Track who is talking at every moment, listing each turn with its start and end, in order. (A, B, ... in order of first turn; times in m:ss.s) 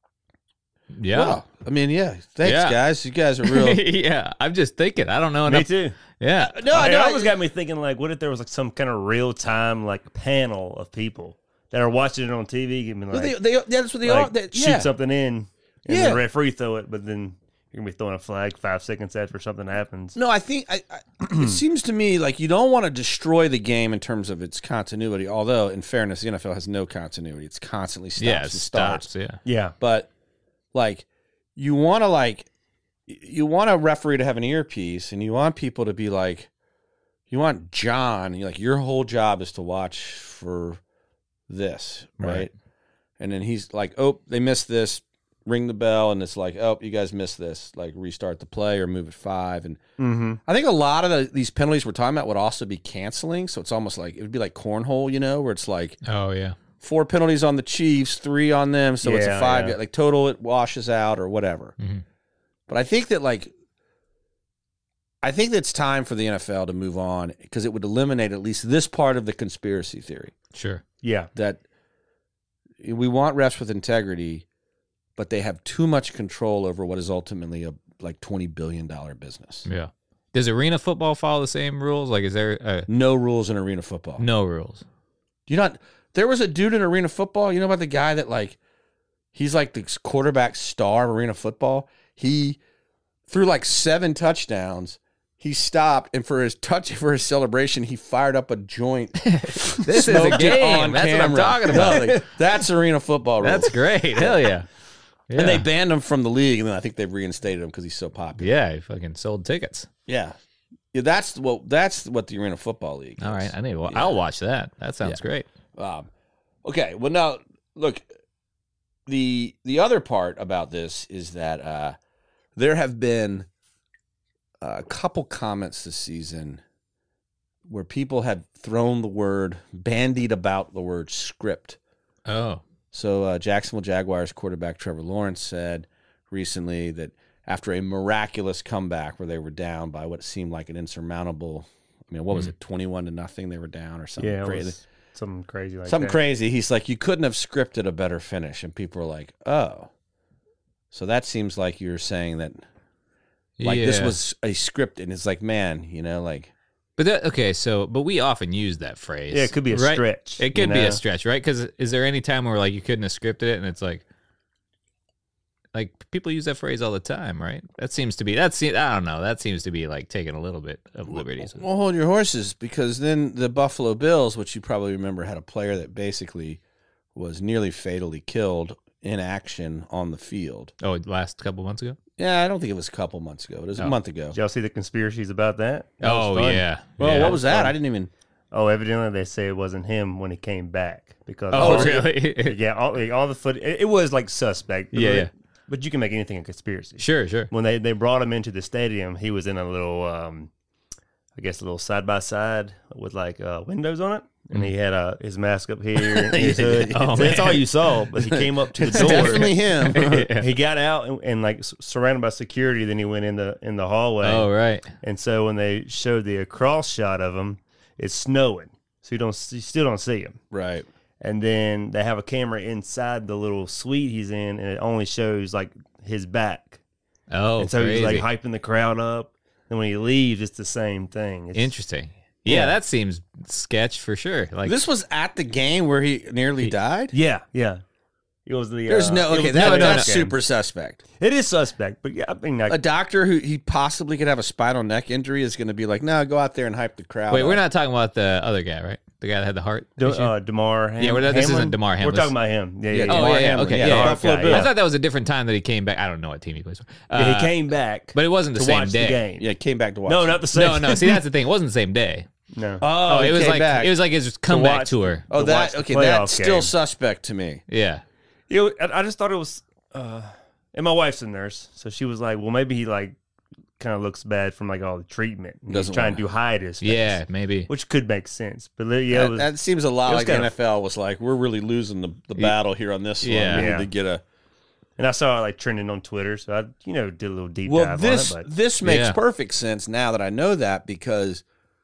0:00.9-0:01.4 A
0:01.1-0:03.8 B
0:02.4-0:02.8 A
0:03.4-0:06.6 A
0:05.4-0:06.0 C
0:06.4-0:07.3 B
0:06.7-0:13.4 C
0:13.1-0:14.9 B
0:14.0-0:20.2 C
0:15.9-0:16.2 B
0:20.1-0:29.1 B
0:28.2-0:29.4 A
0:29.4-0:29.7 C
0:29.8-0:30.1 B
0:30.7-0:32.5 B
0:33.1-0:36.5 B
0:37.3-0:40.8 B
0:41.5-0:42.5 B
0:42.2-0:42.5 A
0:43.2-0:49.8 B
0:50.0-0:50.4 C
0:50.4-0:56.0 B
0:56.0-0:56.6 A
0:56.8-1:01.7 B
0:59.0-0:59.8 C
1:02.7-1:03.5 B
1:05.2-1:10.3 B
1:10.5-1:10.8 A
1:11.0-1:11.3 C
1:11.4-1:11.6 B
1:12.8-1:14.4 B
1:15.2-1:19.7 B
1:19.6-1:22.9 A
1:22.9-1:24.2 B
1:24.2-1:24.8 A
1:25.5-1:28.6 B
1:29.3-1:32.6 B
1:33.3-1:44.4 B
1:39.3-1:42.2 A
1:40.1-1:40.4 C
1:41.7-1:42.1 C
1:43.4-1:44.7 A
1:45.3-1:45.6 A
1:45.4-1:48.5 B
1:48.4-1:49.9 A
1:50.1-1:50.4 B
1:50.9-1:54.2 B
1:53.2-1:55.5 A
1:55.8-1:56.1 B
1:56.6-1:58.1 B
1:59.1-2:02.0 B
2:02.6-2:03.5 B
2:04.6-2:06.6 B
2:07.7-2:11.8 B
2:12.3-2:12.6 A
2:12.9-2:24.8 B
2:24.2-2:26.2 C
2:25.9-2:29.9 B
2:30.9-2:32.6 B
2:33.6-2:34.2 A
2:33.6-2:36.5 B
2:37.0-2:44.0 A
2:39.3-2:41.0 C
2:45.7-2:51.6 A
2:51.1-2:56.6 B
2:57.1-3:00.7 B
3:00.8-3:02.0 A
3:02.2-3:04.4 B
3:04.3-3:07.7 C
3:06.0-3:07.4 A
3:07.0-3:08.1 B
3:08.5-3:20.5 C
3:11.5-3:12.6 A
3:11.6-3:12.0 B
3:14.9-3:15.3 A
3:17.0-3:17.5 A
3:21.4-3:34.5 C
3:26.3-3:27.4 B
3:26.9-3:27.7 A
3:28.8-3:30.3 B
3:28.9-3:30.5 A
3:34.2-3:34.9 A
3:35.0-3:40.4 C
3:40.5-3:40.9 B
3:41.2-3:46.8 C
3:47.3-3:48.3 A
3:47.6-3:51.7 C
3:51.5-3:54.8 A
3:52.5-3:52.7 C
3:54.6-3:57.1 B
3:57.1-3:57.8 C
3:58.4-4:00.4 C
3:58.9-4:01.0 B
3:59.5-4:00.1 A
4:01.2-4:02.8 C
4:02.7-4:07.6 B
4:07.3-4:10.3 A
4:10.0-4:14.7 C
4:11.0-4:12.3 A
4:12.9-4:14.7 B
4:13.1-4:17.6 A
4:17.1-4:19.4 C
4:18.1-4:19.2 A
4:19.4-4:20.4 B
4:20.1-4:21.2 C
4:20.5-4:22.3 A
4:22.5-4:22.8 C
4:22.8-4:23.9 B
4:23.0-4:25.2 A
4:24.5-4:26.7 C
4:25.3-4:27.6 B
4:27.7-4:28.0 A
4:28.5-4:33.2 C
4:33.8-4:39.5 C
4:35.7-4:36.2 B
4:36.8-4:37.7 A
4:39.1-4:44.2 B
4:40.0-4:40.5 C
4:43.2-4:43.7 A
4:43.5-4:43.9 C
4:45.0-4:48.5 C
4:47.6-4:51.4 B
4:48.8-4:49.2 A